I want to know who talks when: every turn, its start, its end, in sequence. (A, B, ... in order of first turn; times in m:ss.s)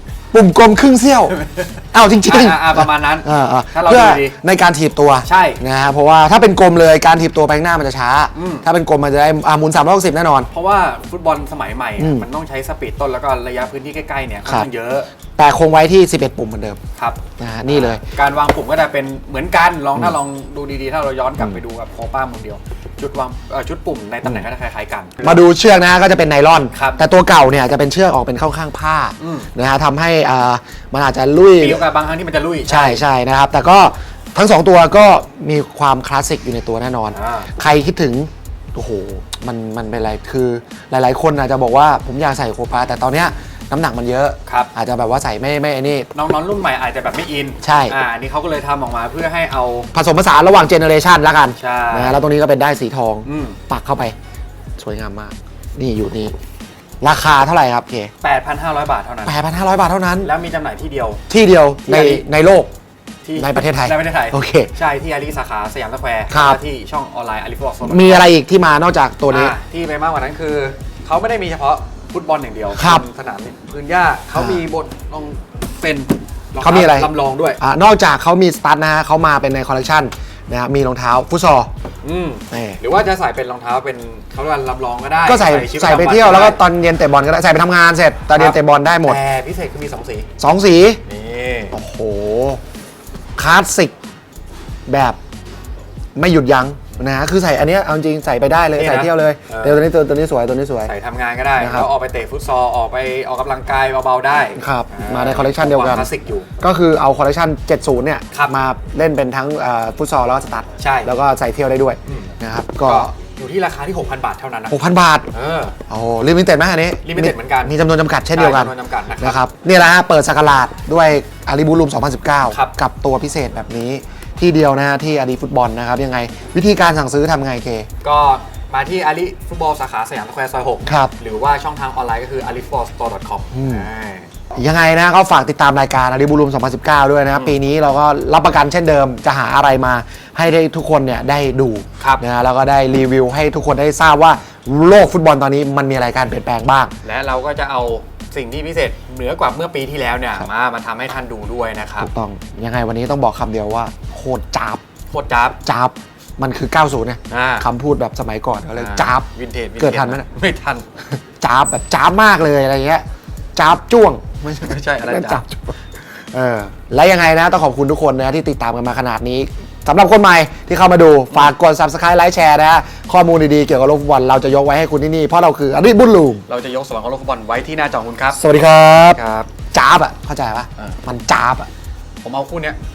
0:00.3-0:01.4 A
0:01.3-0:04.4 B
0:01.9-0:10.5 A
0:05.2-0:05.6 B
0:08.3-0:08.7 B
0:10.5-0:15.1 B
0:12.0-0:12.2 A
0:15.4-0:16.8 A
0:17.0-0:25.4 B
0:17.4-0:18.0 A
0:25.2-0:31.9 A
0:26.7-0:27.0 B
0:29.2-0:29.5 B
0:31.6-0:33.0 B
0:32.7-0:46.1 A
0:37.1-0:37.5 B
0:44.5-0:44.7 B
0:46.2-0:49.9 B
0:47.6-0:48.0 A
0:49.9-0:54.2 A
0:51.6-0:52.2 B
0:53.3-0:53.6 B
0:54.8-0:56.3 A
0:57.0-0:58.1 A
0:58.2-0:59.4 B
0:59.3-1:00.3 A
1:00.2-1:01.2 B
1:01.3-1:02.7 A
1:01.9-1:02.3 B
1:03.2-1:08.3 B
1:03.4-1:04.7 A
1:06.3-1:06.6 A
1:07.8-1:09.6 A
1:09.3-1:17.6 B
1:12.8-1:13.0 A
1:14.3-1:14.6 A
1:16.6-1:21.7 A
1:22.0-1:26.6 B
1:22.5-1:22.8 A
1:25.3-1:29.2 A
1:28.3-1:30.3 B
1:30.4-1:31.0 A
1:31.0-1:31.8 B
1:31.7-1:32.6 A
1:33.4-1:33.9 A
1:34.9-1:35.2 A
1:36.2-1:40.9 A
1:38.8-1:39.8 B
1:40.8-1:46.5 B
1:41.6-1:41.9 A
1:44.6-1:53.1 A
1:48.3-1:48.6 B
1:50.8-1:51.1 B
1:52.1-1:52.3 B
1:52.8-1:55.8 B
1:54.7-1:55.3 A
1:55.9-2:07.9 A
1:57.0-1:57.8 B
1:58.3-1:59.4 B
2:02.5-2:02.8 B
2:08.0-2:14.3 B
2:10.8-2:11.1 A
2:13.5-2:13.8 A
2:14.6-2:26.9 A
2:27.0-2:32.1 B
2:32.0-2:34.8 A
2:35.1-2:35.6 B
2:35.6-2:39.3 A
2:37.3-2:37.6 B
2:38.8-2:40.8 B
2:39.8-2:40.3 A
2:41.2-2:43.0 A
2:43.6-2:45.8 A
2:44.4-2:45.4 B
2:46.3-2:56.4 A
2:56.5-2:58.4 B
2:58.3-3:01.7 A
2:59.1-2:59.5 B
3:02.2-3:02.8 B